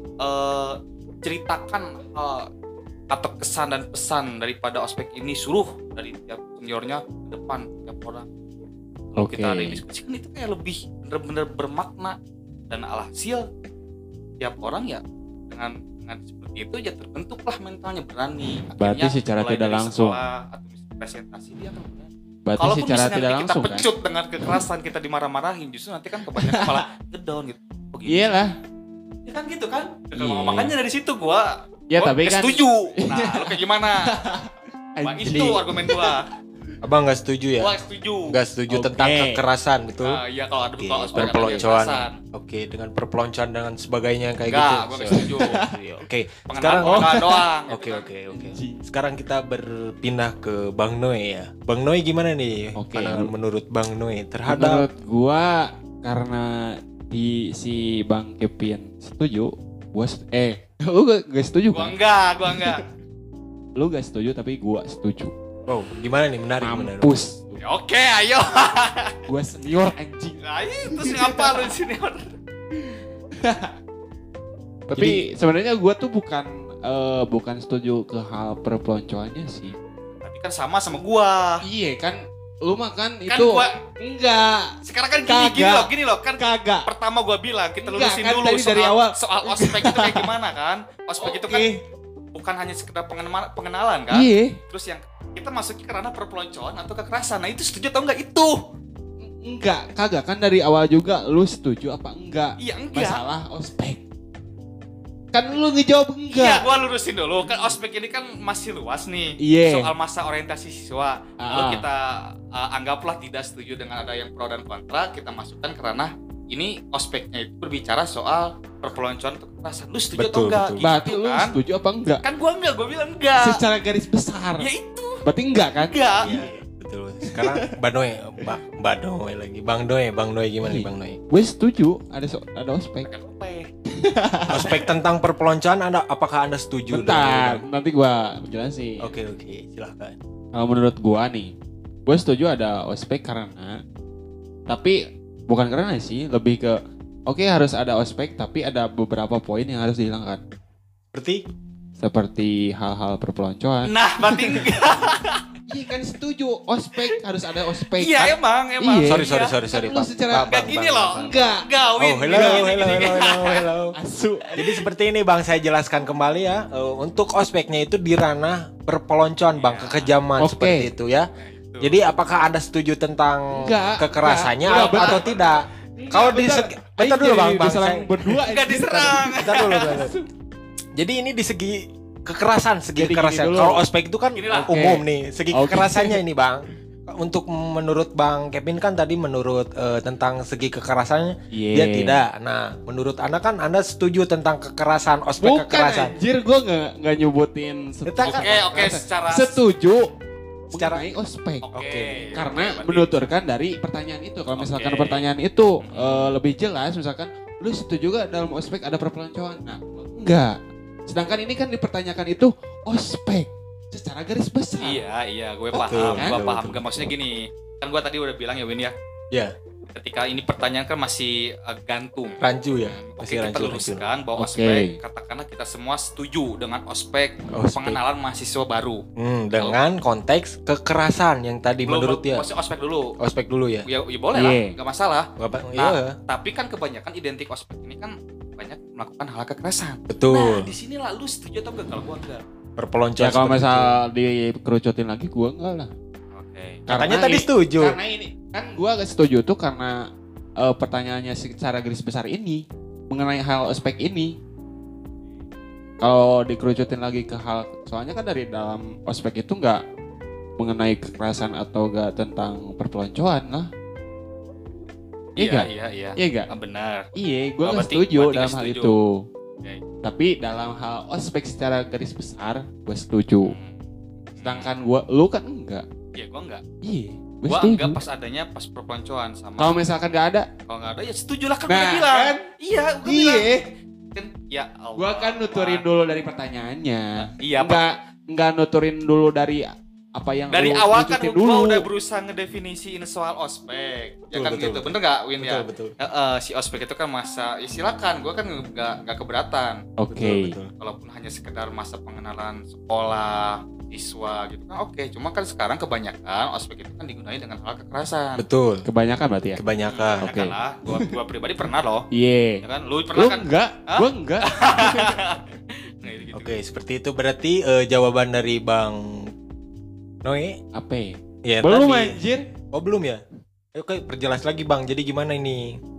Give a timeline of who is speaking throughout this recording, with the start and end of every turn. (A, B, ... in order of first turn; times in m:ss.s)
0:00.2-0:02.5 A
0:03.1-0:08.3 A
0:09.1-0:12.2 A
0:09.2-0:09.8 B
0:12.7-0:13.5 A
0:14.4-0:28.3 A
0:18.8-0:20.2 B
0:22.5-0:23.9 B
0:26.3-0:26.8 B
0:28.1-0:28.6 B
0:29.3-0:34.1 A
0:30.2-0:30.7 B
0:31.9-0:36.1 B
0:35.0-0:36.3 A
0:35.2-0:35.6 C
0:36.8-0:37.7 C
0:37.6-0:38.4 A
0:38.3-0:40.2 C
0:38.7-0:39.4 B
0:40.0-0:42.2 A
0:40.8-0:54.8 C
0:41.2-0:41.7 B
0:44.5-0:45.7 A
0:45.0-0:46.0 B
0:46.5-0:48.1 A
0:46.8-0:47.4 B
0:48.3-0:48.9 B
0:52.8-0:53.3 B
0:54.5-1:02.8 B
1:01.7-1:02.8 A
1:03.8-1:05.3 B
1:05.7-1:07.3 C
1:06.6-1:07.6 B
1:07.6-1:09.2 A
1:09.3-1:11.7 B
1:10.4-1:12.3 A
1:12.8-1:13.7 B
1:14.9-1:19.8 B
1:15.0-1:15.2 C
1:19.6-1:21.6 A
1:21.6-1:26.9 B
1:23.3-1:23.8 A
1:24.8-1:31.8 A
1:27.8-1:30.3 B
1:31.2-1:31.8 B
1:32.3-1:38.6 A
1:34.1-1:34.6 B
1:39.3-1:44.0 B
1:42.6-1:43.2 A
1:45.3-1:46.6 B
1:46.3-2:01.6 A
1:49.4-1:49.9 B
1:51.4-1:51.8 B
2:00.2-2:00.8 C
2:00.8-2:02.2 B
2:02.2-2:03.6 A
2:03.4-2:04.7 B
2:04.6-2:05.2 A
2:05.2-2:06.0 B
2:05.8-2:06.5 A
2:06.2-2:11.2 C
2:07.2-2:07.7 B
2:10.6-2:13.1 B
2:13.1-2:13.7 A
2:13.9-2:14.8 B
2:14.5-2:17.6 C
2:16.9-2:19.1 B
2:19.0-2:20.2 C
2:20.5-2:21.5 B
2:22.1-2:23.8 B
2:24.7-2:30.4 B
2:31.1-2:31.4 C
2:32.0-2:34.7 B
2:33.9-2:35.5 A
2:35.7-2:41.7 B
2:37.9-2:39.6 A
2:39.1-2:41.4 C
2:40.4-2:43.7 A
2:42.0-2:44.0 C
2:42.3-2:43.1 B
2:44.0-2:44.6 B
2:44.6-2:51.3 C
2:49.6-2:50.1 A
2:50.4-2:50.9 B
2:51.4-2:52.0 A
2:51.8-2:58.4 C
2:53.6-2:55.3 B
2:54.8-2:55.5 A
2:56.0-3:00.2 B
2:58.5-3:00.1 A
2:59.2-3:00.2 C
3:01.0-3:16.1 C
3:03.0-3:03.8 B
3:04.4-3:04.8 A
3:04.5-3:06.2 B
3:11.5-3:12.2 B
3:15.4-3:20.1 B
3:18.1-3:18.6 C
3:18.2-3:19.6 A
3:20.7-3:21.6 B
3:20.7-3:21.0 C
3:21.6-3:23.1 A
3:21.8-3:22.2 C
3:22.4-3:30.6 B
3:24.6-3:25.3 A
3:25.8-3:26.3 A
3:31.1-3:35.0 B
3:34.8-3:38.9 A
3:35.7-3:37.1 C
3:36.2-3:36.4 B
3:39.9-3:49.0 A
3:42.4-3:44.0 C
3:44.4-3:45.0 B
3:47.5-3:48.0 C
3:49.2-3:52.5 C
3:51.9-3:53.1 A
3:53.2-3:53.9 C
3:53.8-4:02.4 A
3:54.4-3:54.7 B
3:55.4-3:56.2 C
4:00.1-4:00.7 C
4:02.8-4:04.0 C
4:03.2-4:05.9 B
4:06.3-4:06.8 A
4:06.9-4:08.0 C
4:06.9-4:10.1 B
4:10.6-4:14.4 B
4:16.0-4:19.8 B
4:20.6-4:23.7 B
4:25.4-4:26.5 B
4:25.4-4:27.1 A
4:27.2-4:29.3 B
4:27.6-4:29.0 A
4:30.0-4:33.6 B
4:33.4-4:33.8 A
4:34.4-4:34.7 A
4:34.4-4:35.9 B
4:36.2-4:36.6 A
4:36.8-4:38.0 B
4:37.5-4:39.8 A
4:39.6-4:40.5 B
4:40.7-4:43.6 A
4:41.7-4:42.5 B
4:43.0-4:43.6 B
4:44.1-4:45.8 A
4:45.0-4:51.9 B
4:47.2-4:48.0 A
4:50.5-4:59.9 A
4:54.3-4:56.0 C
5:00.0-5:00.6 B
5:00.1-5:00.7 C
5:00.8-5:08.4 A
5:08.4-5:08.8 C
5:08.8-5:09.6 B
5:09.6-5:10.3 C
5:09.8-5:12.1 A
5:10.2-5:11.1 B
5:12.1-5:15.2 B
5:12.6-5:16.6 A
5:16.3-5:19.3 C
5:20.2-5:20.6 C
5:20.7-5:22.5 B
5:21.4-5:22.2 C
5:22.7-5:23.2 C
5:23.7-5:25.8 C